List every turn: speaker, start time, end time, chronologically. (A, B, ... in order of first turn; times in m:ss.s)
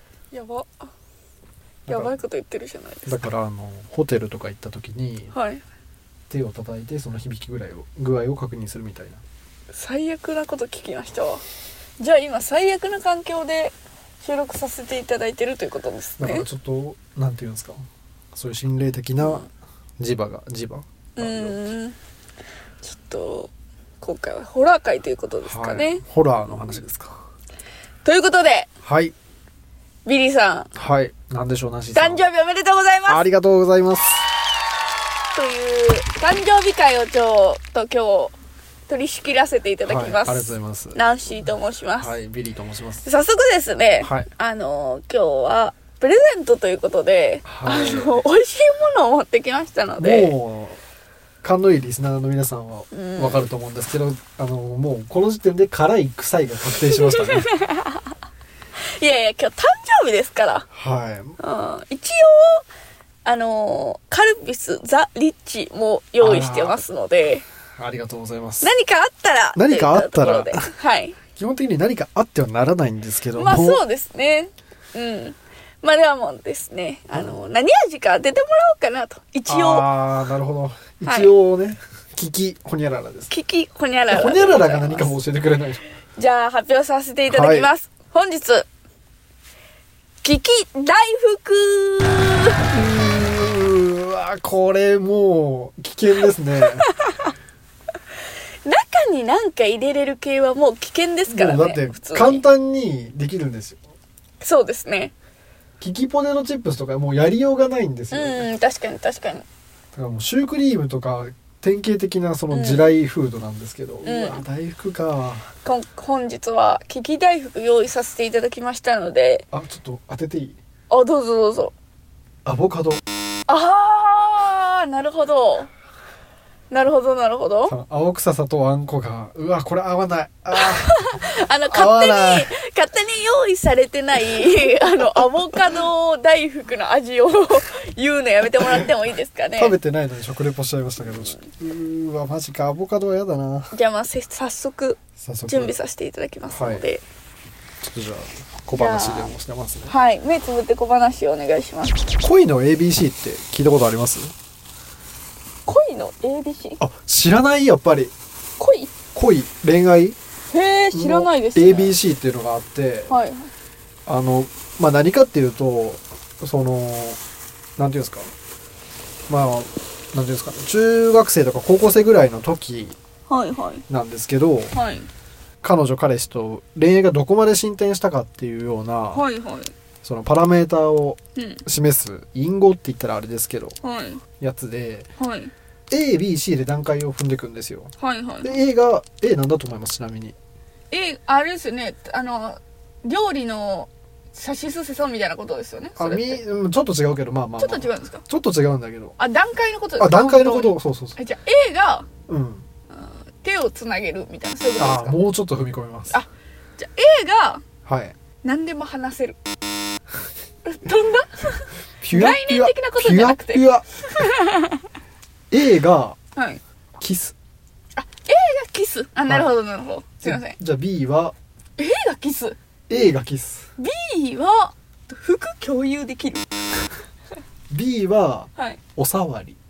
0:00.3-0:00.8 A
0:01.9-0:03.2 A
0:01.9-0:02.1 B
0:03.1-0:05.3 B
0:05.3-0:05.6 A
0:06.3-0:09.2 B
0:09.7-0:11.4 A
0:12.0-0:16.5 A
0:16.2-0:19.5 B
0:19.2-0:19.5 A
0:20.0-0:21.6 B
0:21.2-0:22.0 A
0:22.8-0:26.0 A
0:25.4-0:27.2 B
0:28.0-0:28.7 A
0:28.8-0:29.1 B
0:30.1-0:30.7 A
0:30.8-0:32.2 B
0:31.9-0:33.2 A
0:33.1-0:34.3 B
0:35.3-0:38.3 A
0:38.9-0:42.1 A
0:39.8-0:41.0 B
0:42.0-0:43.0 B
0:43.0-0:50.3 A
0:47.5-0:48.1 B
0:50.0-0:50.8 B
0:51.4-0:57.5 B
0:52.9-0:53.5 A
0:56.9-0:58.2 A
0:58.8-1:00.7 A
1:00.7-1:01.4 B
1:01.4-1:02.7 A
1:03.2-1:07.4 A
1:06.2-1:06.8 B
1:07.8-1:08.7 B
1:08.6-1:11.2 A
1:09.6-1:10.7 B
1:11.4-1:13.8 B
1:13.4-1:19.9 A
1:19.5-1:23.3 B
1:21.0-1:21.3 A
1:23.3-1:25.2 A
1:24.1-1:25.8 B
1:26.2-1:28.7 A
1:27.3-1:27.7 B
1:30.2-1:32.7 A
1:32.7-1:36.9 B
1:36.9-1:37.3 A
1:38.6-1:42.4 A
1:41.3-1:43.8 B
1:44.4-1:45.1 A
1:45.8-1:48.5 B
1:48.1-1:49.4 A
1:49.9-1:55.5 B
1:52.5-1:52.9 A
1:54.0-1:54.4 A
1:55.6-1:59.4 A
1:59.5-2:00.6 B
2:00.9-2:01.8 A
2:02.4-2:03.0 B
2:03.5-2:05.7 A
2:06.7-2:07.8 A
2:07.7-2:12.5 B
2:10.5-2:19.8 A
2:19.6-2:23.7 B
2:23.7-2:27.0 A
2:25.2-2:25.8 B
2:26.5-2:26.8 B
2:27.8-2:29.9 B
2:28.7-2:29.3 A
2:29.9-2:32.1 A
2:32.2-2:34.3 B
2:35.7-2:36.8 A
2:36.8-2:38.1 B
2:38.6-2:38.9 A
2:39.1-2:40.2 B
2:40.5-2:42.0 A
2:40.9-2:43.1 B
2:43.1-2:43.5 A
2:44.1-2:47.2 B
2:47.8-2:48.3 B
2:49.3-2:53.0 B
2:53.3-2:53.8 A
2:53.9-2:54.8 B
2:54.7-2:55.1 A
2:55.6-2:59.2 B
2:59.1-2:59.7 A
3:00.0-3:03.8 B
3:01.4-3:01.6 A
3:03.8-3:04.2 A
3:04.4-3:05.1 B
3:05.2-3:05.5 A
3:05.9-3:07.9 B
3:08.0-3:08.6 A
3:08.4-3:10.4 B
3:10.9-3:16.4 A
3:16.0-3:19.2 B
3:17.6-3:18.2 A
3:19.2-3:22.1 A
3:20.0-3:21.2 B
3:22.3-3:22.6 B
3:22.9-3:25.2 A
3:24.8-3:26.2 B
3:26.1-3:27.6 A
3:27.8-3:28.2 B
3:28.4-3:29.4 A
3:30.6-3:34.8 A
3:32.0-3:33.8 B
3:35.5-3:36.2 B
3:36.4-3:36.6 A
3:37.0-3:37.3 B
3:38.0-3:40.6 A
3:39.3-3:39.5 B
3:40.2-3:41.4 B
3:41.8-3:42.6 A
3:42.9-3:43.7 B
3:43.8-3:46.5 A
3:47.7-3:49.6 B